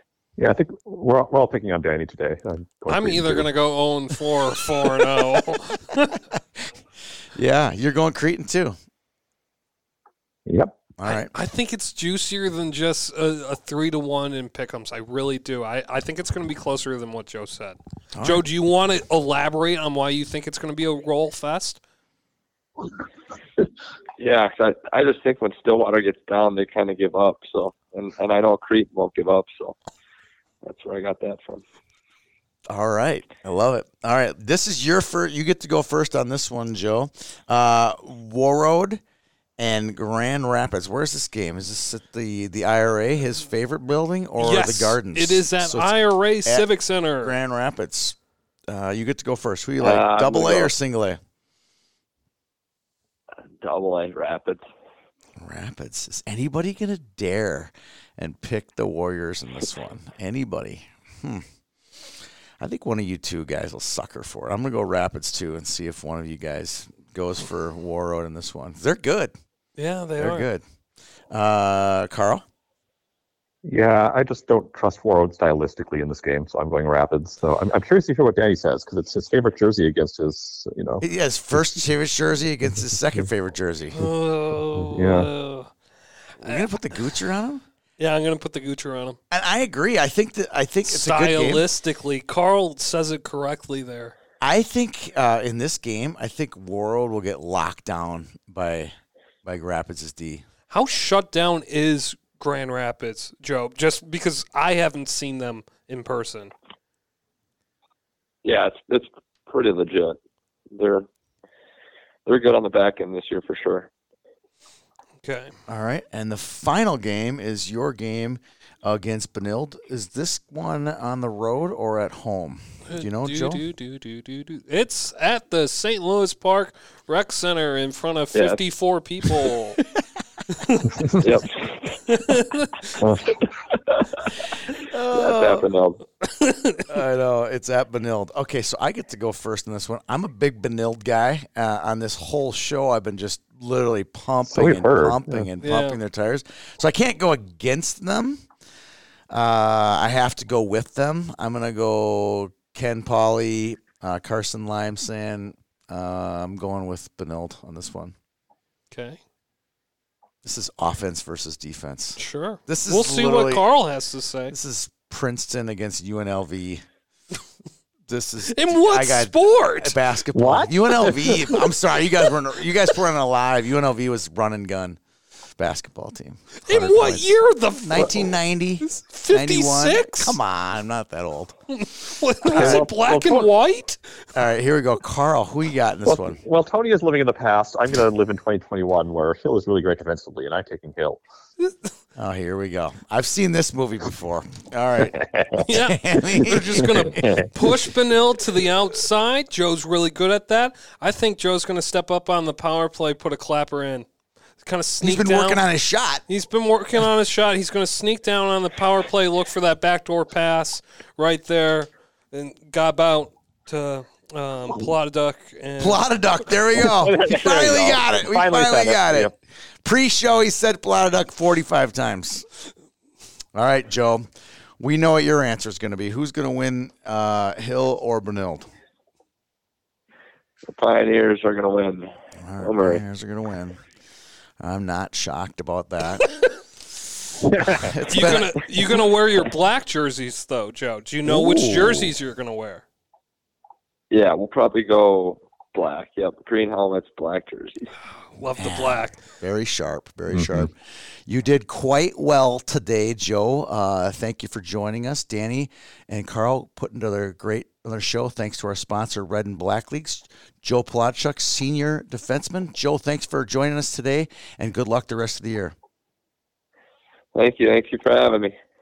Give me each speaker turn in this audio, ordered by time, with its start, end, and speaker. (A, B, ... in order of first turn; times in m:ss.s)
0:00.4-0:03.5 A
0:02.9-0:06.2 B
0:07.3-0:08.8 C
0:10.4-0:10.8 A
0:11.0-0:11.3 C
0:11.0-0:21.8 B
0:18.1-0:18.4 C
0:24.2-0:29.8 D
0:30.6-0:31.6 D
0:32.7-0:39.0 C
0:39.6-0:46.7 C
0:44.4-0:47.4 B
0:47.2-0:48.2 C
0:48.7-0:51.2 C
0:49.8-0:50.7 D
0:53.6-0:54.6 D
0:55.4-1:09.3 C
1:09.8-1:10.5 B
1:10.2-1:10.6 C
1:11.3-1:12.4 C
1:13.6-1:21.0 A
1:21.0-1:24.1 C
1:23.9-1:25.7 B
1:24.8-1:25.3 A
1:26.4-1:27.6 C
1:28.0-1:29.2 B
1:29.3-1:31.6 C
1:30.8-1:34.1 B
1:34.4-1:40.4 C
1:40.7-1:46.5 B
1:48.4-1:50.2 D
1:50.7-1:51.0 D
1:52.2-1:53.9 D
1:55.2-1:55.5 B
1:55.7-2:03.6 C
2:02.9-2:09.8 B
2:08.3-2:08.6 D
2:10.5-2:11.1 B
2:11.2-2:12.0 D
2:12.1-2:13.0 B
2:13.0-2:13.4 A
2:13.7-2:14.3 D
2:14.8-2:15.7 C
2:15.1-2:16.0 D
2:16.2-2:16.9 B
2:16.9-2:28.4 C
2:24.5-2:25.5 A
2:25.6-2:26.0 B
2:29.3-2:38.1 C
2:38.9-2:39.2 B
2:40.4-2:43.7 C
2:42.2-2:44.6 B
2:44.5-2:46.8 C
2:48.1-2:55.0 C
2:48.4-2:50.0 B
2:50.3-2:51.6 A
2:55.6-3:01.6 C
2:56.6-2:58.3 B
2:58.8-3:00.4 B
3:01.7-3:04.0 B
3:02.5-3:03.5 A
3:02.5-3:02.8 C
3:04.3-3:06.4 C
3:06.0-3:11.2 A
3:12.2-3:17.4 C
3:15.6-3:24.1 B
3:24.6-3:25.6 B
3:25.0-3:26.2 C
3:26.3-3:36.0 B
3:35.8-3:39.3 C
3:36.8-3:39.3 A
3:39.8-3:42.4 C
3:43.5-3:44.3 C
3:44.8-3:48.7 C
3:50.7-3:53.0 D
3:52.4-3:53.8 C
3:54.6-3:56.3 C
3:56.8-3:58.6 C
3:57.6-3:57.9 A
3:58.1-4:02.8 B
4:01.2-4:02.1 C
4:04.1-4:07.9 D
4:08.1-4:09.2 B
4:08.6-4:10.7 C
4:10.3-4:10.7 A
4:11.2-4:25.7 C
4:27.3-4:28.5 D